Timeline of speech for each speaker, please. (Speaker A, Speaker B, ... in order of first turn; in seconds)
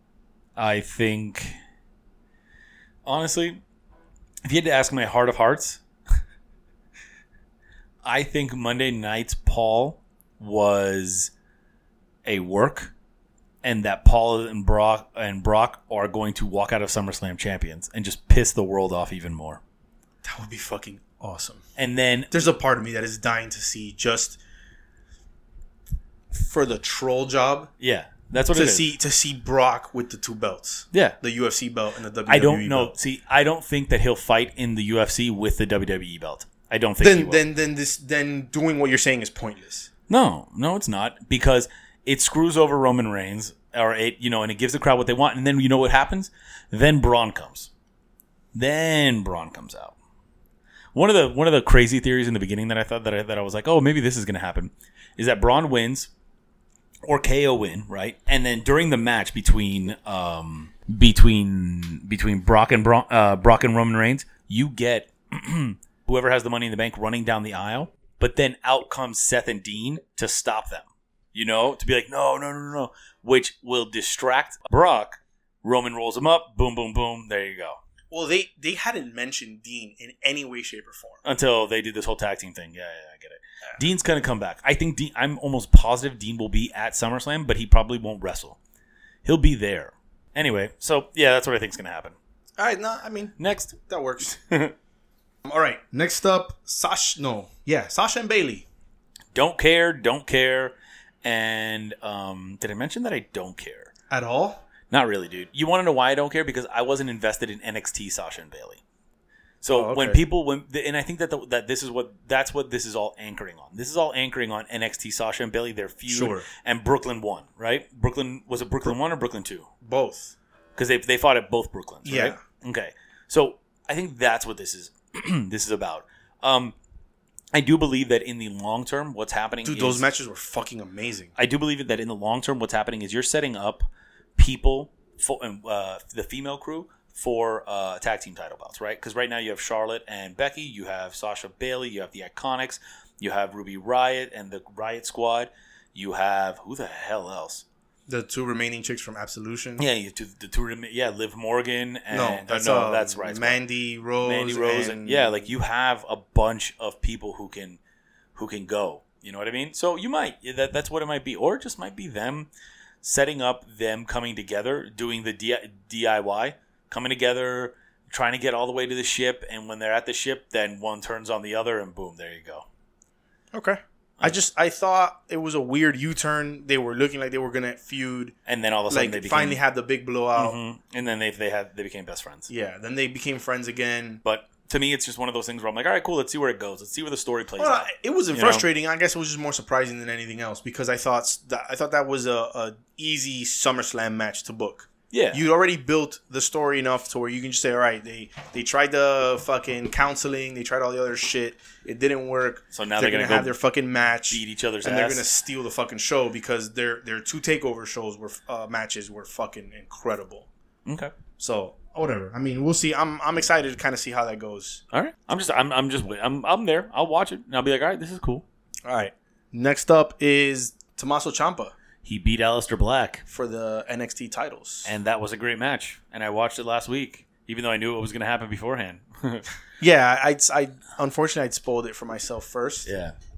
Speaker A: 0.6-1.6, 3.0-3.6, 4.4-5.8, 8.0-11.3, 12.2-12.9, 13.6-19.6, 21.8-22.3, 27.8-28.9, 30.9-31.2, 32.3-37.4, 40.1-47.7, 48.5-49.9, 50.9-56.1, 57.0-77.8, 81.2-88.6, 89.2-92.2, 93.4-94.7, 99.3-103.9, 104.9-108.8, 109.6-119.7, 120.8-126.7, 127.5-130.1, 131.3-147.6, 149.8-153.6, 154.2-157.8, 158.3-162.5, 163.0-172.7, 178.4-179.6, 180.3-182.5, 184.2-188.7, 195.1-195.4, 202.7-203.5, 204.3-205.2, 210.8-211.1, 214.9-218.4, 222.0-223.2, 224.8-229.5, 232.8-233.2
Speaker B: 20.2-21.6, 22.3-24.4, 26.3-27.7, 28.5-32.9, 37.0-39.9, 78.1-81.2, 92.6-94.3, 95.4-98.7, 104.1-104.6, 109.7-110.2, 116.1-116.5, 119.8-120.3, 122.0-122.4, 129.6-131.3, 148.1-149.8, 152.1-155.4, 173.5-178.3, 178.9-180.6, 182.5-184.2, 187.6-210.5, 211.4-214.8, 218.8-221.7, 223.3-224.9, 229.8-232.9